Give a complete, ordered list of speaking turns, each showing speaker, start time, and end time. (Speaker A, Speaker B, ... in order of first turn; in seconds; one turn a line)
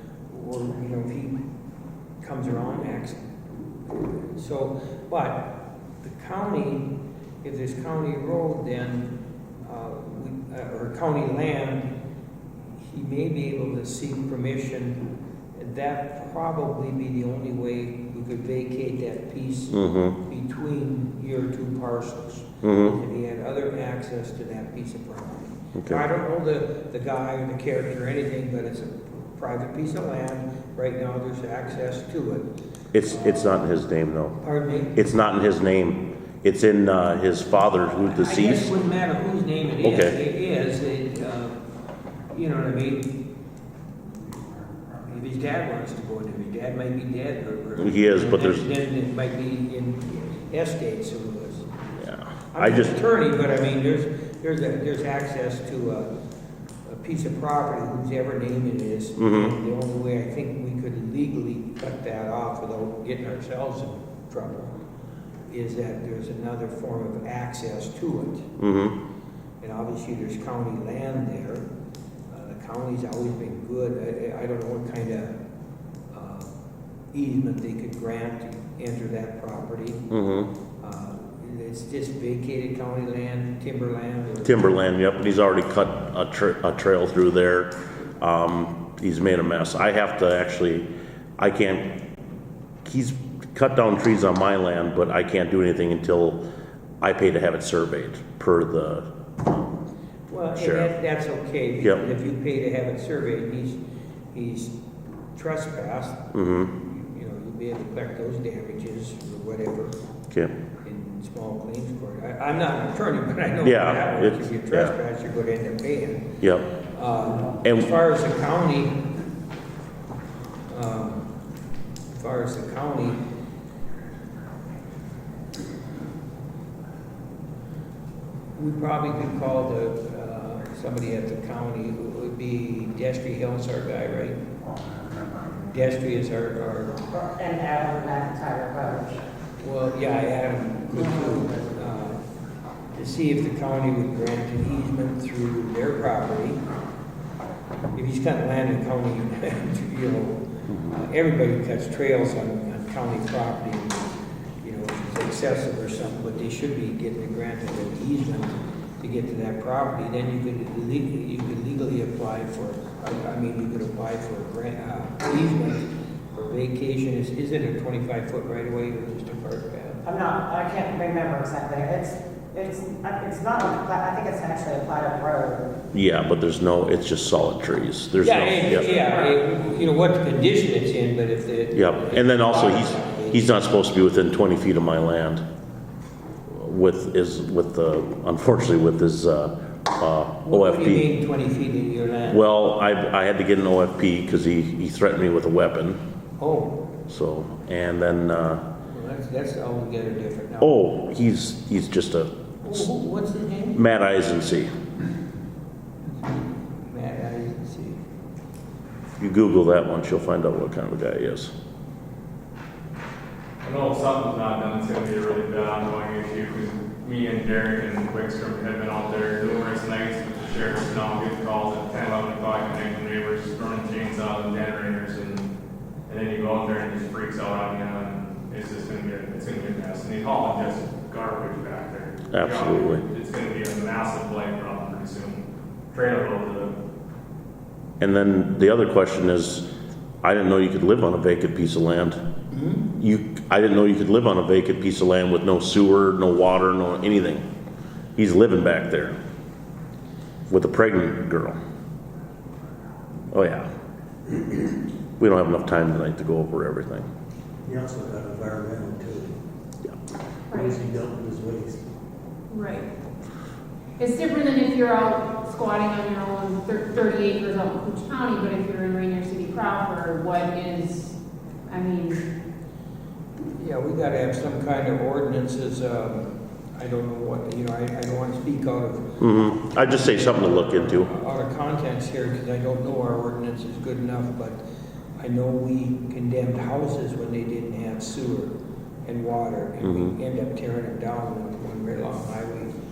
Speaker A: 0.3-1.4
Speaker A: 2.2-3.2
Speaker A: 4.0-6.9
Speaker A: 7.4-9.1
Speaker A: 9.6-11.9
Speaker A: 12.8-15.0
Speaker A: 15.6-32.5
Speaker B: 19.7-20.1
Speaker B: 22.6-22.9
Speaker B: 25.8-26.0
Speaker B: 32.9-34.4
Speaker A: 33.1-33.6
Speaker A: 34.4-35.0
Speaker B: 34.9-38.7
Speaker A: 38.1-41.5
Speaker B: 39.8-40.2
Speaker A: 42.3-43.2
Speaker A: 45.0-51.7
Speaker B: 47.8-48.6
Speaker B: 52.0-53.0
Speaker A: 52.5-56.1
Speaker A: 56.9-64.7
Speaker B: 59.2-59.5
Speaker A: 65.5-68.5
Speaker B: 68.6-69.0
Speaker A: 69.6-71.7
Speaker A: 72.3-75.3
Speaker A: 76.1-76.5
Speaker A: 77.1-80.1
Speaker B: 80.1-80.5
Speaker A: 80.8-84.8
Speaker B: 84.4-90.9
Speaker B: 91.4-91.9
Speaker B: 92.8-96.4
Speaker B: 97.0-99.8
Speaker A: 100.3-103.8
Speaker B: 100.5-100.9
Speaker A: 104.3-104.7
Speaker A: 105.3-109.9
Speaker B: 106.3-106.7
Speaker A: 110.8-116.3
Speaker B: 113.6-114.9
Speaker B: 116.4-116.7
Speaker A: 116.9-119.0
Speaker B: 117.6-117.9
Speaker A: 120.7-121.3
Speaker A: 122.1-123.2
Speaker A: 128.6-134.4
Speaker A: 135.6-137.0
Speaker C: 137.1-139.2
Speaker A: 139.6-142.2
Speaker C: 141.2-141.6
Speaker A: 142.9-146.6
Speaker A: 147.9-154.1
Speaker A: 154.6-170.0
Speaker C: 170.0-175.7
Speaker B: 175.9-178.9
Speaker A: 178.2-183.4
Speaker C: 178.7-179.3
Speaker B: 181.7-185.4
Speaker B: 186.5-191.1
Speaker A: 190.4-192.4
Speaker B: 192.3-196.0
Speaker A: 196.4-196.8
Speaker B: 197.1-198.7
Speaker A: 198.8-200.8
Speaker B: 200.6-202.9
Speaker A: 202.6-203.8
Speaker B: 203.7-204.7
Speaker A: 206.1-208.0
Speaker B: 209.2-211.5
Speaker D: 213.6-225.4
Speaker D: 226.1-236.7
Speaker B: 232.3-233.0
Speaker B: 238.0-239.7
Speaker B: 240.2-242.2
Speaker A: 242.5-242.8
Speaker B: 242.9-247.4
Speaker B: 248.2-249.2
Speaker B: 250.5-251.6
Speaker B: 253.3-253.7
Speaker B: 255.2-257.1
Speaker E: 257.6-259.4
Speaker F: 260.5-260.8
Speaker E: 260.5-261.9
Speaker F: 262.5-262.9
Speaker F: 264.0-271.1
Speaker F: 271.7-272.2
Speaker A: 273.6-284.6
Speaker B: 279.2-281.1
Speaker A: 285.2-288.5
Speaker A: 289.1-292.7
Speaker B: 289.8-290.1